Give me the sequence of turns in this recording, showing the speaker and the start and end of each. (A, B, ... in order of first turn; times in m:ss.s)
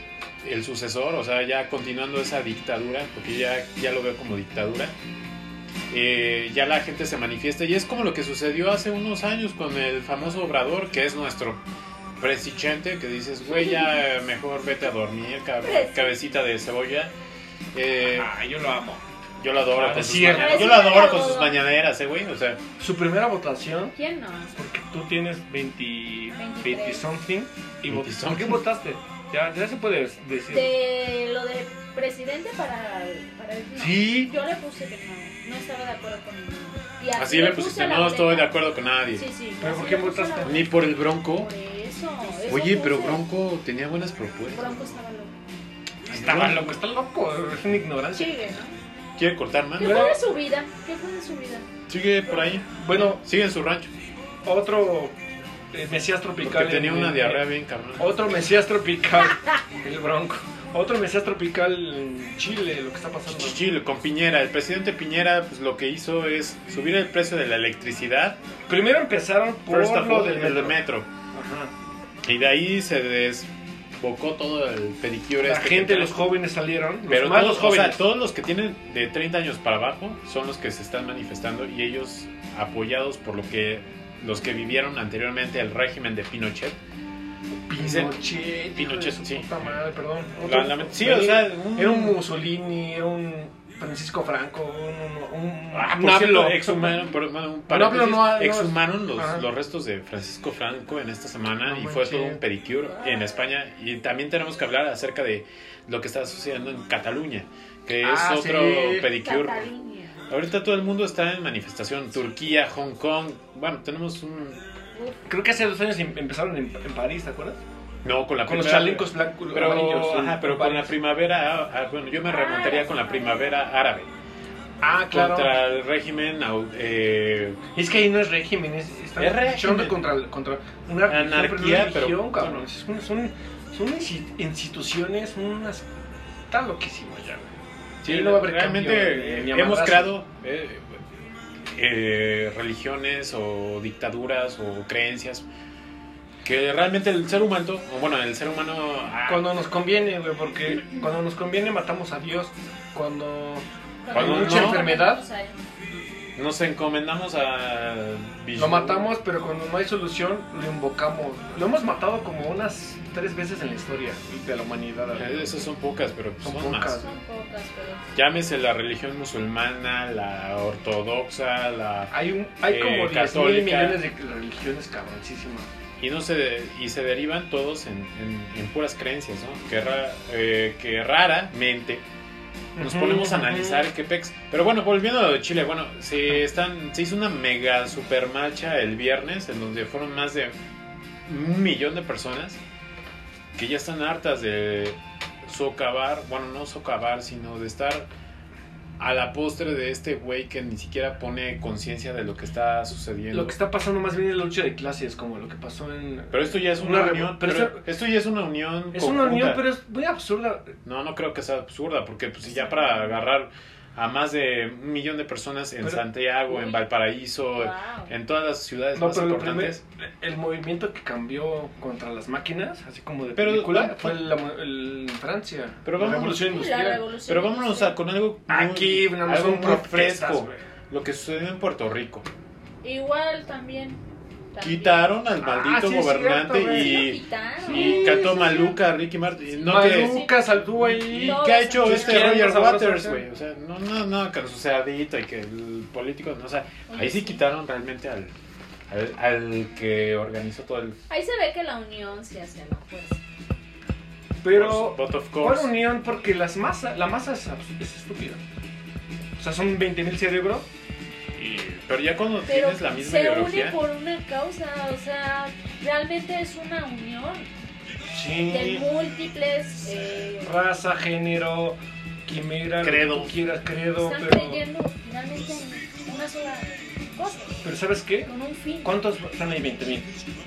0:00.4-0:04.9 A
0:05.9-0:11.6 A
0:12.2-0:17.1 A
0:13.4-0:14.0 B
0:15.6-0:16.2 B
0:17.7-0:18.3 A
0:18.0-0:19.0 C
0:19.4-0:22.6 A
0:19.7-0:20.9 C
0:20.2-0:21.6 B
0:22.8-0:23.9 C
0:23.9-0:24.5 B
0:24.6-0:30.7 C
0:26.3-0:27.0 B
0:27.9-0:28.6 A
0:30.5-0:38.6 B
0:33.8-0:34.3 C
0:37.1-0:39.2 A
0:39.1-0:43.2 B
0:39.6-0:40.6 C
0:40.4-0:41.5 A
0:42.5-0:44.9 A
0:44.5-0:45.3 B
0:46.1-0:46.8 A
0:46.1-0:48.4 C
0:48.1-0:48.7 B
0:49.2-0:50.1 A
0:49.8-0:51.7 B
0:49.8-0:50.2 C
0:51.9-0:53.9 A
0:52.8-0:53.2 C
0:54.4-0:55.2 C
0:55.7-0:57.4 C
0:56.4-0:58.4 A
0:58.0-1:03.6 C
1:03.3-1:08.4 A
1:08.7-1:10.8 C
1:09.7-1:11.1 A
1:11.3-1:11.7 C
1:12.2-1:16.3 A
1:15.4-1:18.0 C
1:17.1-1:26.8 A
1:27.7-1:37.0 C
1:27.8-1:28.2 A
1:28.7-1:29.7 A
1:30.4-1:32.2 A
1:35.7-1:49.7 A
1:37.7-1:39.4 C
1:41.6-1:42.4 C
1:42.8-1:43.4 B
1:48.0-1:49.1 C
1:49.1-1:50.2 B
1:50.3-1:54.6 A
1:55.3-1:57.6 C
1:58.0-2:04.1 A
1:58.4-2:00.9 C
2:02.3-2:03.5 B
2:04.8-2:05.5 C
2:05.1-2:07.6 A
2:07.7-2:15.8 C
2:09.2-2:10.0 A
2:11.0-2:12.7 A
2:16.5-2:20.1 C
2:18.0-2:21.0 A
2:21.7-2:25.4 A
2:26.4-2:29.7 A
2:29.3-2:35.2 C
2:34.0-2:35.6 B
2:34.1-2:34.9 A
2:36.4-2:39.1 A
2:38.6-2:45.6 C
2:45.1-2:47.1 A
2:46.4-2:47.1 C
2:46.9-2:48.0 B
2:48.1-2:52.1 A
2:52.1-2:55.7 C
2:52.6-2:54.0 A
2:56.0-3:02.0 A
3:02.8-3:03.8 C
3:02.8-3:10.5 A
3:11.2-3:12.6 A
3:13.6-3:18.1 A
3:19.0-3:23.6 A
3:23.3-3:27.8 C
3:26.3-3:29.6 A
3:28.9-3:30.7 C
3:30.8-3:39.8 A
3:32.6-3:32.9 B
3:36.5-3:36.8 B
3:37.5-3:38.1 B
3:38.9-3:47.0 C
3:43.3-3:44.3 A
3:45.8-3:46.7 A
3:46.3-3:48.0 B
3:47.2-3:52.2 A
3:48.5-3:50.6 C
3:52.8-3:54.0 B
3:54.5-3:55.1 B
3:54.6-4:08.3 A
3:55.4-3:57.1 C
3:56.7-3:58.6 B
3:57.6-3:58.7 C
3:59.6-4:00.6 B
3:59.6-4:03.2 C
4:01.1-4:02.5 B
4:06.9-4:07.5 B
4:08.9-4:11.0 A
4:11.1-4:13.2 B
4:14.4-4:18.4 C
4:14.5-4:15.7 A
4:19.4-4:20.7 C
4:21.4-4:21.8 C
4:21.7-4:23.8 A
4:22.5-4:27.5 B
4:28.1-4:28.8 C
4:28.5-4:30.6 B
4:30.4-4:34.6 C
4:32.8-4:33.4 A
4:34.0-4:37.7 B
4:37.6-4:38.3 C
4:38.2-4:39.0 B
4:38.8-4:40.1 C